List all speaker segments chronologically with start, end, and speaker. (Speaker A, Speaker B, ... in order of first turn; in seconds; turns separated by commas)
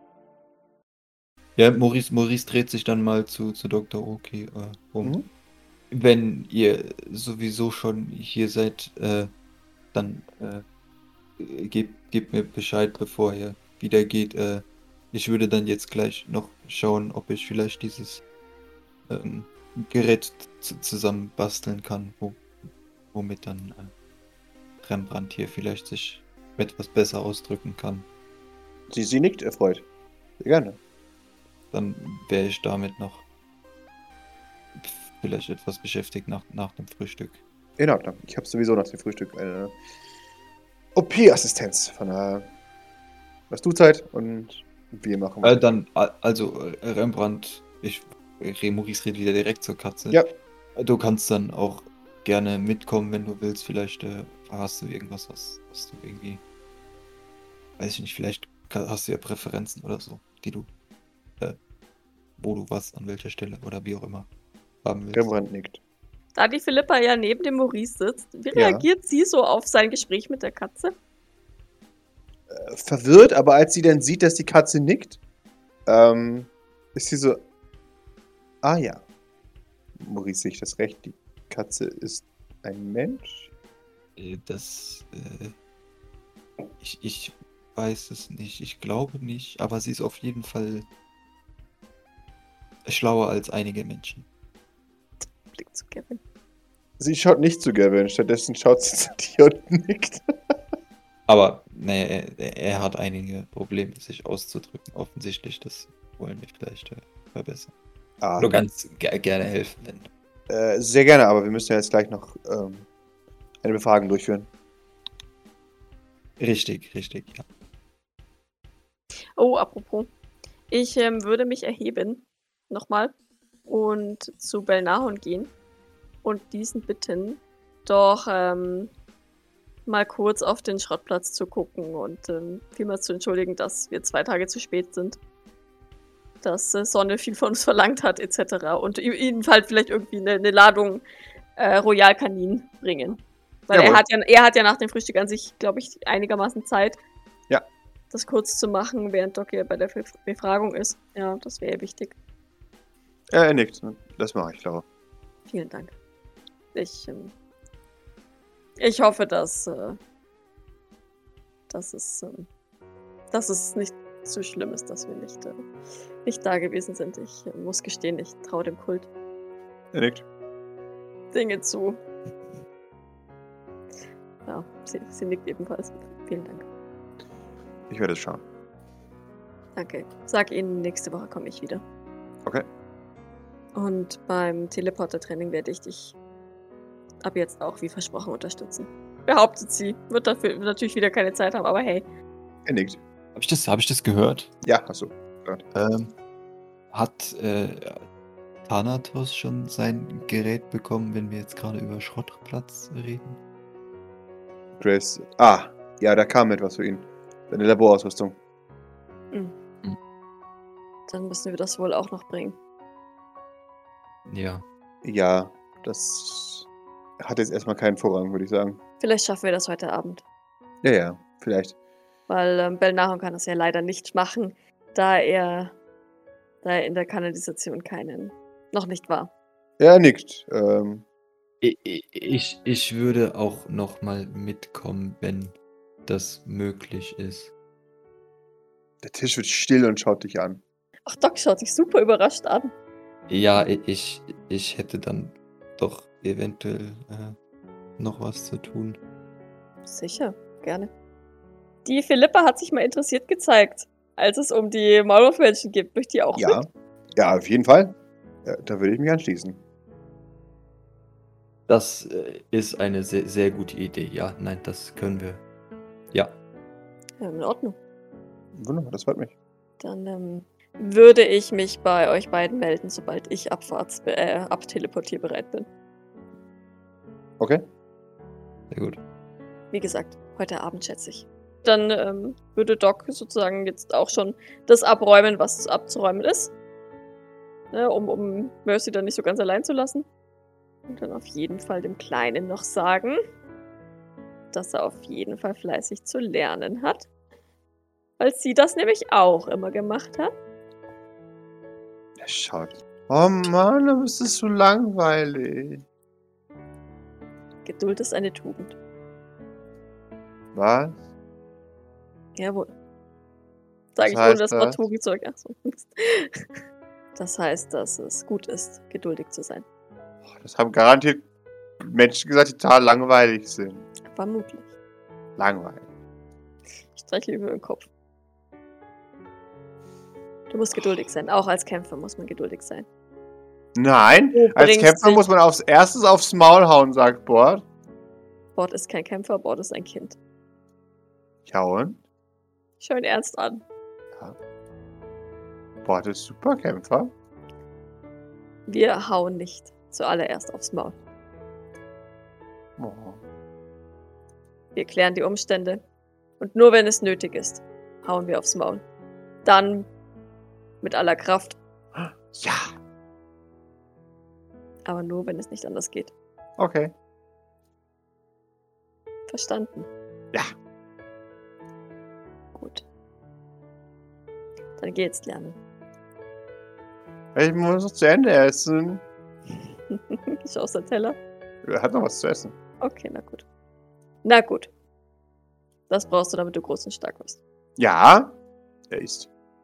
Speaker A: 1.6-5.2, Speaker A: 5.9-9.3, Speaker A: 9.9-10.7, Speaker A: 11.4-18.2, Speaker A: 19.1-22.4, Speaker A: 23.1-23.9, Speaker A: 24.8-28.1, Speaker B: 28.9-29.9, Speaker B: 30.4-30.8, Speaker A: 31.7-33.2, Speaker A: 34.8-37.4, Speaker B: 37.8-39.8, Speaker B: 41.0-42.5, Speaker B: 43.5-45.8, Speaker A: 45.4-56.4, Speaker A: 57.8-60.7, Speaker A: 62.4-64.3, Speaker A: 64.8-65.3, Speaker B: 65.1-65.8, Speaker C: 66.4-71.0, Speaker B: 68.5-68.9, Speaker B: 72.5-75.2, Speaker B: 75.9-77.4, Speaker B: 78.6-79.0, Speaker B: 80.0-83.5, Speaker A: 84.2-85.5, Speaker A: 86.8-90.9, Speaker A: 92.8-94.3, Speaker C: 95.5-96.2, Speaker B: 97.0-100.6, Speaker A: 101.3-107.7, Speaker B: 108.2-108.7, Speaker A: 108.4-110.1, Speaker B: 110.5-112.9, Speaker B: 113.6-114.5, Speaker A: 116.4-117.4, Speaker C: 119.4-120.1, Speaker C: 120.7-123.1, Speaker C: 123.7-125.5, Speaker C: 126.2-128.9, Speaker C: 129.9-135.2, Speaker C: 136.4-141.0, Speaker C: 141.6-147.0, Speaker B: 143.7-144.0, Speaker C: 148.1-152.2, Speaker B: 153.3-154.8, Speaker C: 155.5-155.9, Speaker C: 156.7-157.3, Speaker C: 158.8-160.0, Speaker C: 161.7-162.5, Speaker C: 163.3-165.6, Speaker C: 166.2-169.1, Speaker B: 169.9-170.2, Speaker C: 171.3-172.0, Speaker C: 174.5-176.7, Speaker B: 177.9-178.4, Speaker C: 179.8-181.8, Speaker C: 183.8-186.2, Speaker C: 187.2-192.1, Speaker B: 192.7-193.0, Speaker A: 193.4-194.5, Speaker B: 194.6-195.6, Speaker A: 195.7-196.1, Speaker A: 196.9-198.1, Speaker A: 198.7-203.4, Speaker B: 204.8-208.4, Speaker C: 211.1-212.6, Speaker A: 214.3-214.7, Speaker B: 215.0-216.7, Speaker B: 217.2-218.8, Speaker C: 219.0-220.2, Speaker B: 220.8-221.8, Speaker C: 222.3-225.8, Speaker C: 226.6-229.3, Speaker B: 229.8-231.1, Speaker A: 231.6-235.5, Speaker A: 236.1-237.5, Speaker B: 239.0-240.6, Speaker C: 241.1-242.7, Speaker A: 243.3-247.4, Speaker A: 248.0-249.0, Speaker C: 249.9-250.9, Speaker C: 251.8-256.7, Speaker B: 256.4-259.6, Speaker A: 261.7-265.4, Speaker C: 267.2-267.8, Speaker B: 268.6-269.4, Speaker C: 269.8-275.7, Speaker B: 277.4-277.6, Speaker A: 278.7-279.0, Speaker C: 279.7-286.5, Speaker C: 287.7-290.1, Speaker C: 290.9-293.2, Speaker C: 294.5-297.1, Speaker C: 298.2-300.3, Speaker B: 302.2-305.8, Speaker C: 307.6-308.8, Speaker B: 310.5-311.0, Speaker C: 312.4-312.7, Speaker C: 313.9-316.5, Speaker B: 314.0-314.8, Speaker C: 317.2-319.6, Speaker B: 320.3-321.2, Speaker B: 321.8-323.9, Speaker C: 324.1-324.7, Speaker B: 325.4-325.9, Speaker C: 326.9-327.9, Speaker C: 330.5-332.9, Speaker B: 333.8-337.6, Speaker C: 334.3-335.2, Speaker C: 338.6-340.2, Speaker B: 341.5-342.0, Speaker C: 342.8-343.6, Speaker B: 345.8-347.1, Speaker C: 348.7-351.0, Speaker B: 352.8-353.2, Speaker C: 354.8-355.8, Speaker C: 356.4-358.8, Speaker C: 359.4-359.9, Speaker C: 360.8-361.6, Speaker B: 361.9-362.7, Speaker C: 364.9-366.1, Speaker B: 366.6-366.9, Speaker C: 369.3-369.9, Speaker C: 372.6-372.9, Speaker C: 374.8-375.6, Speaker B: 377.4-379.0, Speaker C: 379.9-381.2, Speaker B: 381.6-382.6, Speaker C: 382.8-383.4, Speaker C: 384.2-384.7, Speaker C: 385.9-387.4, Speaker B: 387.8-388.4, Speaker B: 388.9-389.3